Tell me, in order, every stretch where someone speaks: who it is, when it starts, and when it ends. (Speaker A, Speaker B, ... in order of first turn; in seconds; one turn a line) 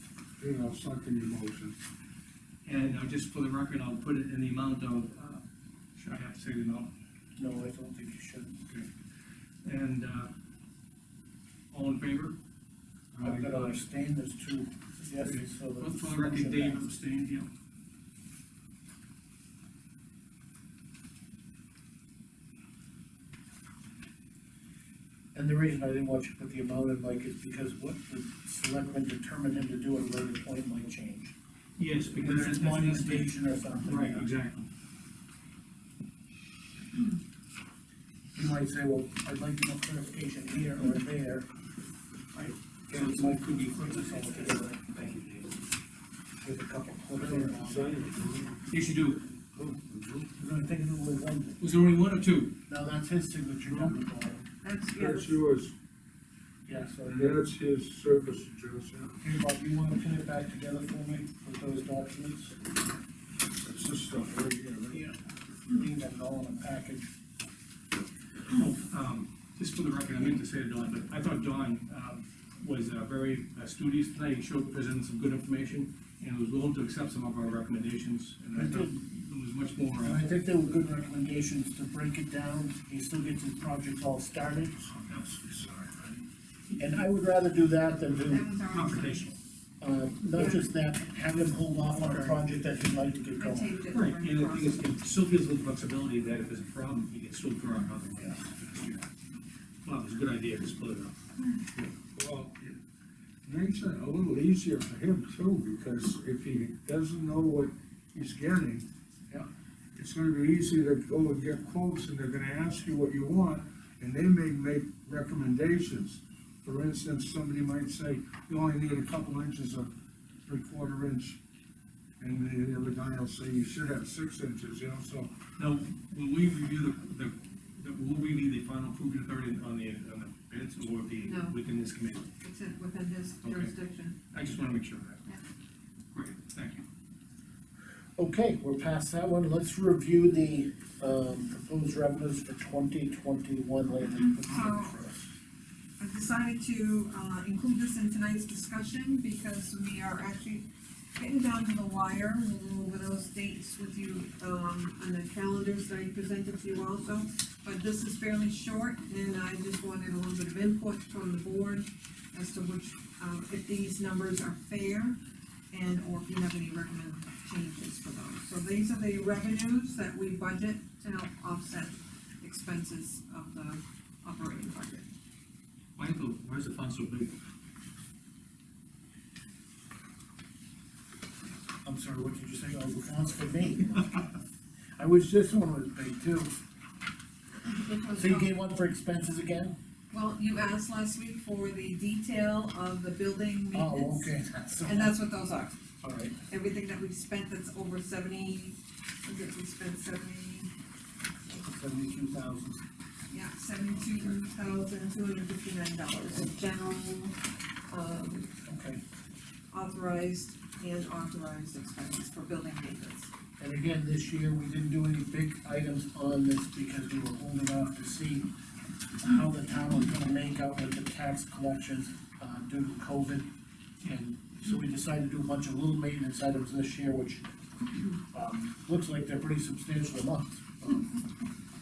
Speaker A: 0.4-1.7
Speaker B: 2.6-5.4
Speaker B: 6.0-6.9
Speaker C: 7.4-8.6
Speaker B: 9.6-10.3
Speaker B: 11.7-12.4
Speaker B: 13.1-13.8
Speaker C: 13.2-16.9
Speaker B: 15.2-17.5
Speaker C: 25.3-31.3
Speaker B: 31.8-34.7
Speaker C: 32.2-34.3
Speaker C: 38.3-41.5
Speaker B: 42.3-45.6
Speaker C: 42.9-44.8
Speaker C: 46.4-48.0
Speaker A: 47.1-48.6
Speaker B: 48.7-49.2
Speaker A: 49.5-50.3
Speaker C: 50.3-51.6
Speaker B: 51.6-52.5
Speaker C: 52.7-54.4
Speaker D: 54.6-55.4
Speaker A: 54.9-55.7
Speaker C: 56.6-57.5
Speaker A: 57.1-59.1
Speaker C: 59.2-62.6
Speaker A: 63.6-65.0
Speaker C: 64.9-67.1
Speaker B: 68.5-80.2
Speaker C: 78.5-79.0
Speaker C: 80.0-84.9
Speaker B: 85.0-86.9
Speaker C: 86.8-88.5
Speaker D: 88.3-89.3
Speaker B: 88.7-89.4
Speaker C: 89.8-93.7
Speaker D: 90.3-90.7
Speaker B: 92.0-92.4
Speaker D: 93.4-94.8
Speaker B: 93.9-99.0
Speaker B: 99.8-101.2
Speaker A: 102.0-102.7
Speaker A: 103.4-108.8
Speaker A: 110.0-119.9
Speaker A: 120.4-121.4
Speaker A: 122.2-125.3
Speaker B: 125.6-132.3
Speaker D: 131.2-131.6
Speaker D: 132.4-134.2
Speaker B: 133.4-133.7
Speaker B: 134.3-135.2
Speaker B: 136.1-136.8
Speaker C: 138.2-145.2
Speaker D: 144.3-144.9
Speaker D: 146.0-165.2
Speaker D: 165.7-175.1
Speaker B: 176.0-177.3
Speaker C: 181.8-184.3
Speaker C: 185.0-186.6
Speaker D: 187.6-188.5
Speaker C: 188.1-189.8
Speaker D: 190.1-195.8
Speaker C: 193.7-195.1
Speaker C: 196.0-196.3
Speaker D: 196.5-200.7
Speaker C: 201.6-202.8
Speaker D: 203.3-207.4
Speaker D: 207.9-208.5
Speaker C: 208.6-209.0
Speaker D: 209.7-213.3
Speaker C: 213.6-218.5
Speaker C: 219.2-223.5
Speaker C: 224.0-227.4
Speaker C: 228.3-231.2